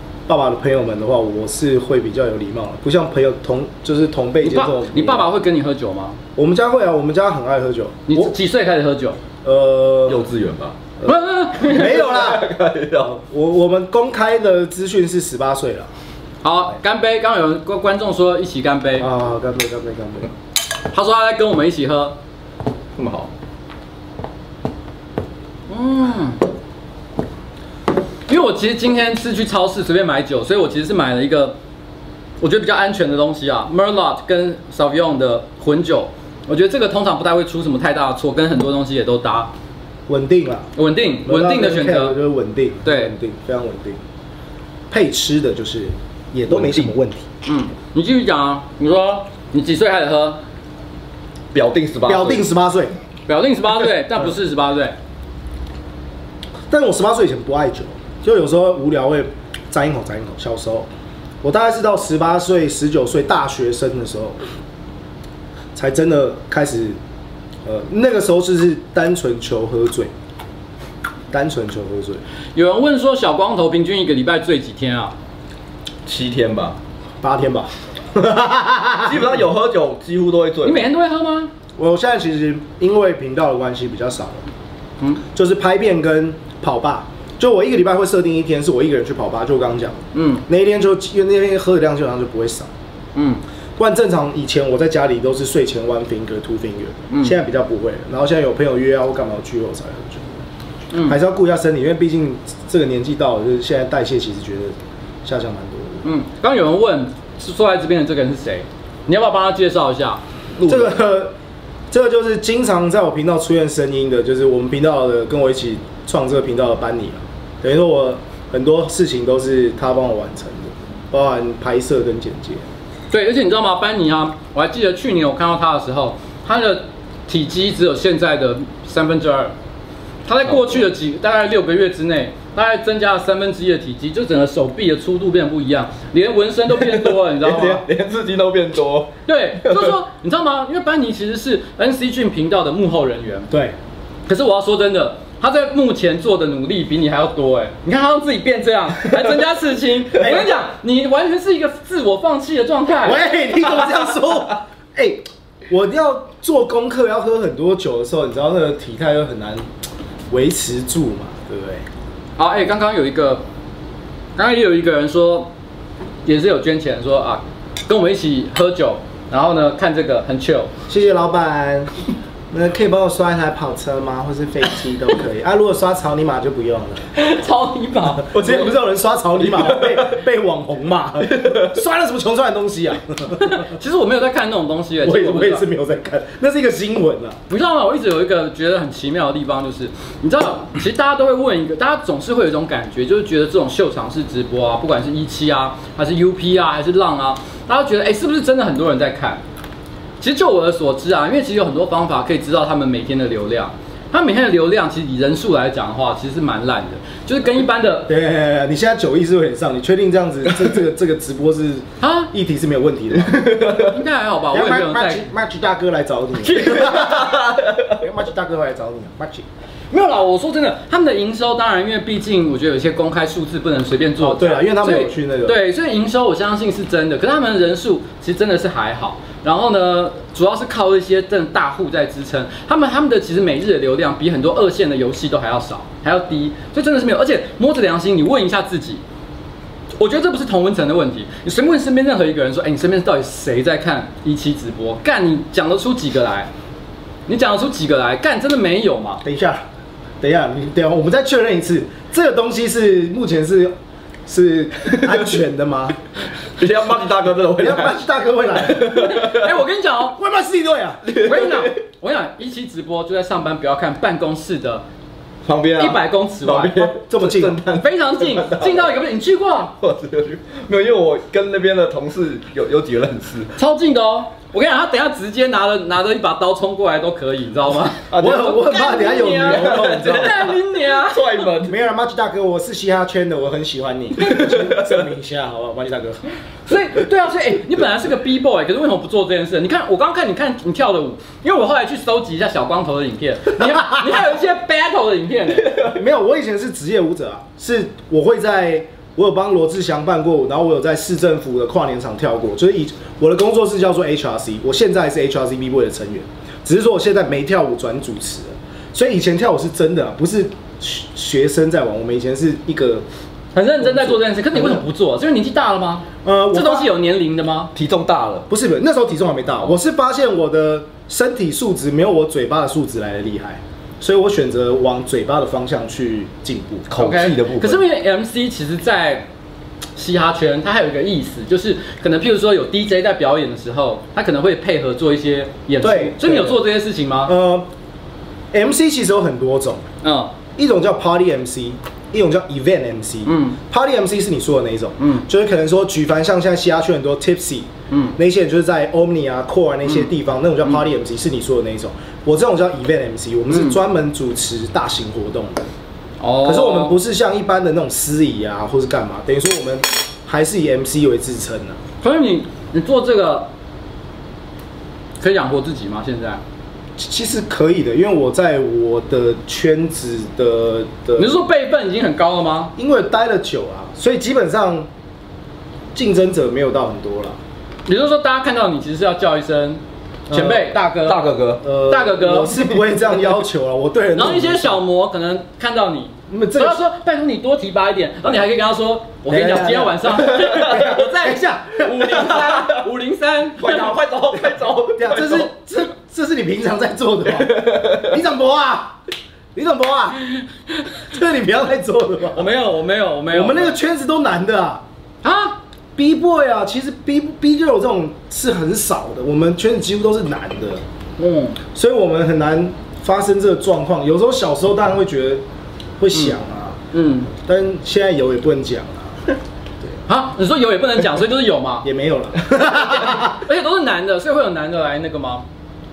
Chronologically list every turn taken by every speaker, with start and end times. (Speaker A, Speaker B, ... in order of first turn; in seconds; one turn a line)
Speaker A: 0.3-5.3
Speaker B: 4.4-6.2
Speaker A: 6.3-8.3
Speaker B: 8.1-9.2
Speaker A: 9.4-10.2
Speaker C: 10.1-10.8
Speaker A: 11.0-12.5
Speaker B: 11.0-12.0
Speaker C: 11.6-13.2
Speaker A: 13.1-15.9
Speaker B: 16.4-19.1
Speaker A: 19.0-20.3
Speaker B: 20.9-22.1
Speaker C: 23.0-23.3
Speaker B: 25.7-26.4
Speaker B: 28.3-31.6
Speaker B: 32.4-39.5
Speaker A: 40.1-40.7
Speaker B: 40.8-42.1
Speaker A: 41.2-44.0
Speaker B: 42.8-43.1
Speaker A: 44.9-47.2
Speaker C: 46.5-46.9
Speaker B: 47.4-50.4
Speaker C: 51.5-52.5
Speaker A: 52.0-52.9
Speaker B: 53.3-55.0
Speaker A: 56.7-60.9
Speaker A: 61.4-64.4
Speaker A: 65.7-67.0
Speaker A: 67.6-70.1
Speaker A: 71.3-72.2
Speaker B: 72.5-75.1
Speaker C: 76.0-76.8
Speaker A: 77.2-79.3
Speaker C: 79.0-80.9
Speaker B: 80.6-81.5
Speaker A: 81.8-84.4
Speaker A: 85.3-92.7
Speaker B: 90.1-90.4
Speaker B: 93.1-93.4
Speaker A: 93.8-100.4
Speaker B: 100.9-101.2
Speaker A: 101.0-106.0
Speaker B: 106.0-110.2
Speaker C: 110.6-110.9
Speaker A: 110.6-111.3
Speaker A: 111.9-122.6
Speaker B: 123.1-129.5
Speaker B: 130.2-137.8
Speaker C: 136.8-139.9
Speaker B: 139.2-143.5
Speaker A: 143.5-143.8
Speaker B: 144.3-153.2
Speaker A: 150.2-150.4
Speaker A: 153.0-159.7
Speaker A: 160.3-161.8
Speaker B: 162.4-163.4
Speaker B: 164.3-165.5
Speaker B: 166.2-170.7
Speaker A: 170.9-171.9
Speaker A: 172.5-177.1
Speaker B: 177.1-178.6
Speaker A: 178.2-183.7
Speaker C: 179.4-180.2
Speaker C: 181.3-181.7
Speaker B: 183.4-185.7
Speaker A: 185.0-187.4
Speaker B: 187.5-199.4
Speaker B: 200.2-208.1
Speaker A: 208.1-213.8
Speaker B: 212.0-212.3
Speaker C: 213.3-213.9
Speaker B: 213.8-215.2
Speaker A: 214.5-219.4
Speaker B: 216.4-216.9
Speaker C: 216.7-217.9
Speaker B: 219.9-239.0
Speaker A: 224.2-225.6
Speaker B: 239.9-246.5
Speaker B: 247.3-249.2
Speaker A: 249.2-249.6
Speaker A: 250.2-253.7
Speaker A: 254.2-256.0
Speaker C: 256.6-258.0
Speaker A: 257.6-259.1
Speaker C: 258.6-259.4
Speaker B: 258.9-260.2
Speaker A: 260.2-261.0
Speaker C: 261.0-261.7
Speaker B: 261.2-264.8
Speaker C: 265.4-269.0
Speaker B: 265.8-266.9
Speaker A: 266.9-267.6
Speaker B: 267.8-269.7
Speaker C: 269.8-273.5
Speaker B: 273.6-281.5
Speaker C: 278.1-278.7
Speaker A: 278.2-280.4
Speaker C: 279.3-281.8
Speaker A: 281.7-286.2
Speaker C: 284.5-284.8
Speaker B: 286.7-295.8
Speaker A: 295.9-313.0
Speaker B: 313.5-317.7
Speaker A: 313.8-314.8
Speaker A: 316.2-316.9
Speaker C: 317.7-318.5
Speaker A: 318.5-326.9
Speaker C: 326.9-327.8
Speaker B: 327.0-329.3
Speaker B: 329.9-337.3
Speaker A: 335.8-336.6
Speaker A: 337.2-337.7
Speaker A: 338.5-339.9
Speaker B: 340.0-340.3
Speaker A: 340.6-355.6
Speaker B: 343.2-343.6
Speaker B: 345.0-345.2
Speaker B: 347.9-348.1
Speaker B: 353.5-353.8
Speaker B: 356.2-357.0
Speaker A: 356.4-361.8
Speaker B: 362.0-363.5
Speaker B: 365.2-366.4
Speaker A: 367.0-371.4
Speaker B: 371.2-372.7
Speaker A: 372.8-374.9
Speaker A: 375.9-377.4
Speaker B: 377.9-381.2
Speaker A: 380.3-380.8
Speaker C: 381.0-381.6
Speaker A: 381.6-384.8
Speaker B: 381.9-382.7
Speaker B: 384.1-393.9
Speaker A: 386.3-386.8
Speaker A: 389.3-392.3
Speaker C: 392.1-392.8
Speaker C: 393.6-395.5
Speaker A: 395.0-399.0
Speaker C: 397.4-398.1
Speaker A: 399.5-400.2
Speaker A: 401.0-402.5
Speaker B: 402.3-403.8
Speaker A: 403.3-404.8
Speaker B: 405.2-405.6
Speaker A: 405.9-410.8
Speaker B: 411.2-411.6
Speaker A: 411.7-415.4
Speaker A: 416.0-416.8
Speaker B: 416.9-417.3
Speaker A: 417.3-419.3
Speaker B: 420.1-421.9
Speaker A: 421.8-423.4
Speaker B: 423.1-425.4